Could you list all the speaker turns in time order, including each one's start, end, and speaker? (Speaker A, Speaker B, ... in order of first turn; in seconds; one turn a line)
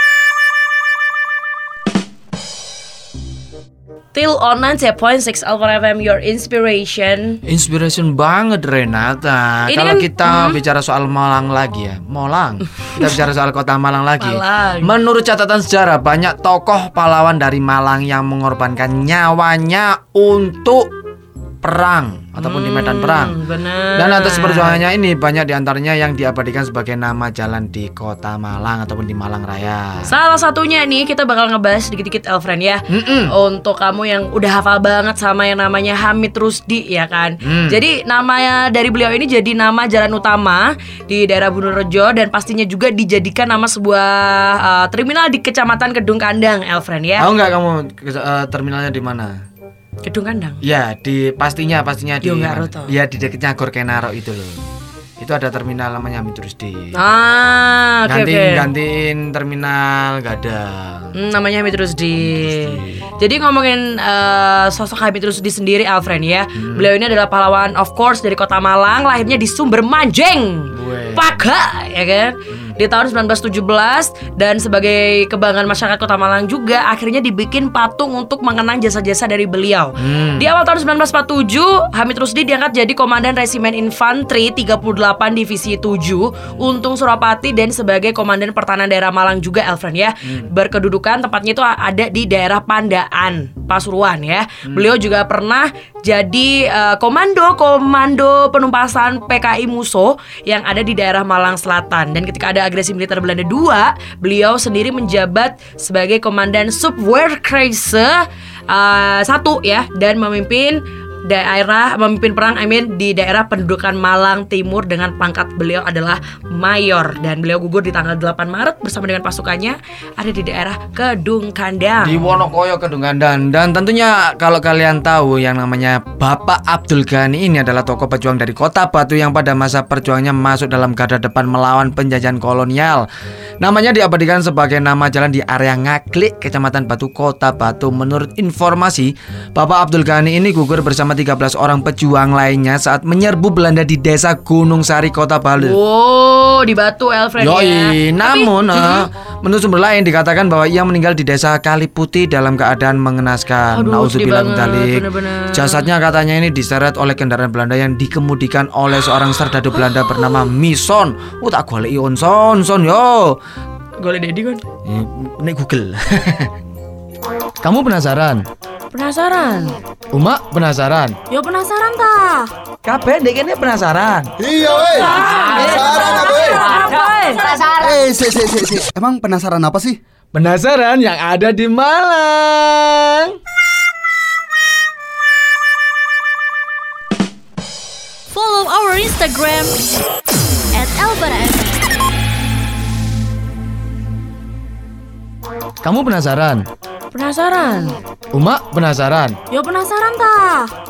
Speaker A: 4.1-7.4
Speaker B: 7.4-20.9
Speaker A: 9.7-10.6
Speaker A: 14.2-14.9
Speaker B: 21.6-23.4
Speaker A: 22.4-24.8
Speaker B: 23.9-30.1
Speaker A: 30.1-47.3
Speaker B: 32.9-33.3
Speaker B: 37.4-37.8
Speaker B: 47.2-49.4
Speaker A: 50.0-50.6
Speaker B: 50.6-54.6
Speaker A: 52.2-52.9
Speaker B: 55.2-56.9
Speaker A: 56.9-58.7
Speaker B: 58.1-61.1
Speaker A: 61.1-122.4
Speaker B: 62.2-63.0
Speaker B: 66.5-66.9
Speaker B: 70.7-71.2
Speaker B: 72.5-72.8
Speaker B: 80.0-80.5
Speaker B: 122.0-133.1
Speaker B: 133.6-145.8
Speaker A: 145.6-149.1
Speaker B: 147.4-163.4
Speaker A: 153.7-155.9
Speaker A: 164.0-164.6
Speaker B: 164.9-166.5
Speaker B: 167.6-168.4
Speaker A: 168.9-169.8
Speaker B: 170.1-171.2
Speaker A: 171.3-172.5
Speaker B: 172.8-174.3
Speaker A: 175.0-177.6
Speaker C: 177.7-180.0
Speaker B: 180.3-183.3
Speaker D: 188.3-189.8
Speaker D: 190.7-191.8
Speaker B: 195.8-196.6
Speaker A: 197.1-198.0
Speaker B: 198.3-199.4
Speaker A: 199.5-200.7